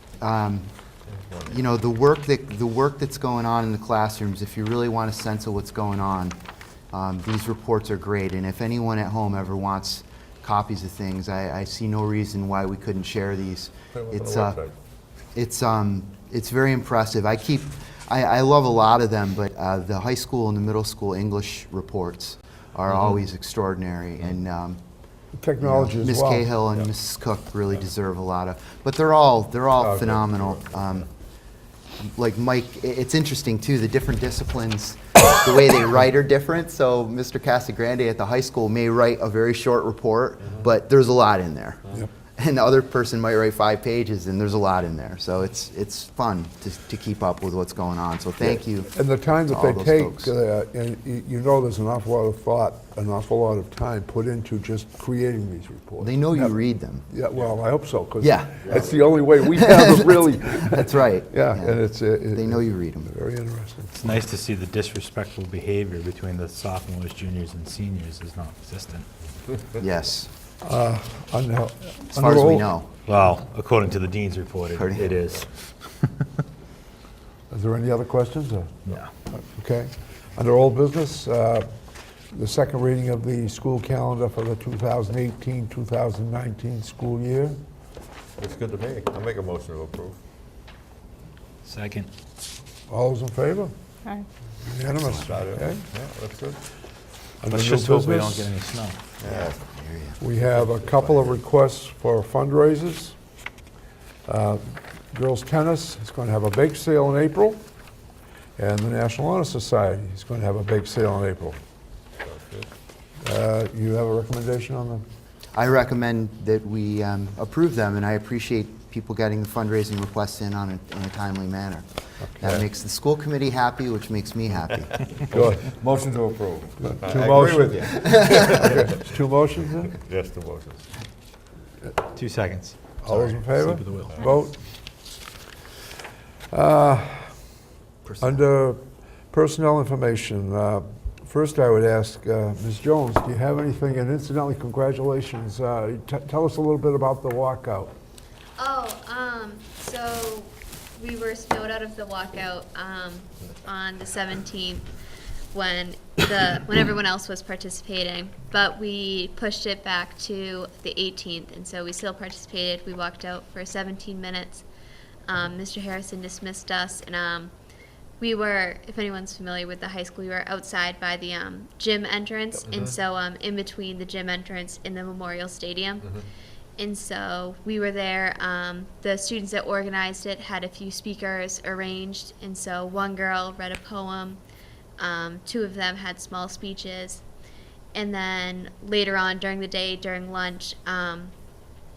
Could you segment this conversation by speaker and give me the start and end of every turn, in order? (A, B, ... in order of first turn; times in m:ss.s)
0:00.2-0:00.7 A
0:01.1-0:01.6 B
0:01.4-0:06.4 A
0:06.9-0:14.6 A
0:13.9-0:14.7 B
0:15.3-0:24.8 A
0:25.3-0:26.5 C
0:25.6-0:31.1 A
0:29.8-0:31.0 B
0:32.0-0:50.3 A
0:48.9-0:56.5 C
0:56.0-0:57.1 A
0:57.1-1:03.9 C
0:58.2-1:01.8 A
1:02.3-1:03.1 A
1:03.9-1:09.1 D
1:09.8-1:10.3 A
1:10.6-1:12.7 C
1:12.1-1:12.9 A
1:13.0-1:16.2 D
1:14.7-1:15.2 A
1:17.5-1:21.6 C
1:22.3-1:27.6 C
1:28.4-1:30.2 B
1:31.6-1:32.1 D
1:32.9-1:33.7 C
1:34.6-1:35.8 C
1:35.2-1:36.6 B
1:37.4-1:38.5 C
1:37.5-1:39.0 D
1:39.2-1:39.6 B
1:39.2-1:40.2 A
1:40.2-1:43.2 C
1:44.3-1:47.6 C
1:48.6-1:51.6 C
1:52.2-1:52.7 B
1:53.2-1:55.0 C
1:55.5-2:01.8 A
2:02.2-2:02.6 C
2:02.4-2:05.0 A
2:05.3-2:05.7 C
2:05.3-2:08.9 B
2:06.8-2:10.0 C
2:08.3-2:08.6 A
2:09.9-2:10.9 B
2:12.1-2:14.2 D
2:13.0-2:14.6 C
2:16.5-2:17.4 C
2:18.0-2:18.4 A
2:18.2-2:27.9 C
2:28.6-2:34.9 E
2:35.5-2:44.6 E
2:45.3-2:47.5 E
2:48.2-2:56.2 E
2:52.6-2:52.9 B
2:56.8-3:04.4 E
3:05.0-3:07.2 E
3:07.9-3:11.3 E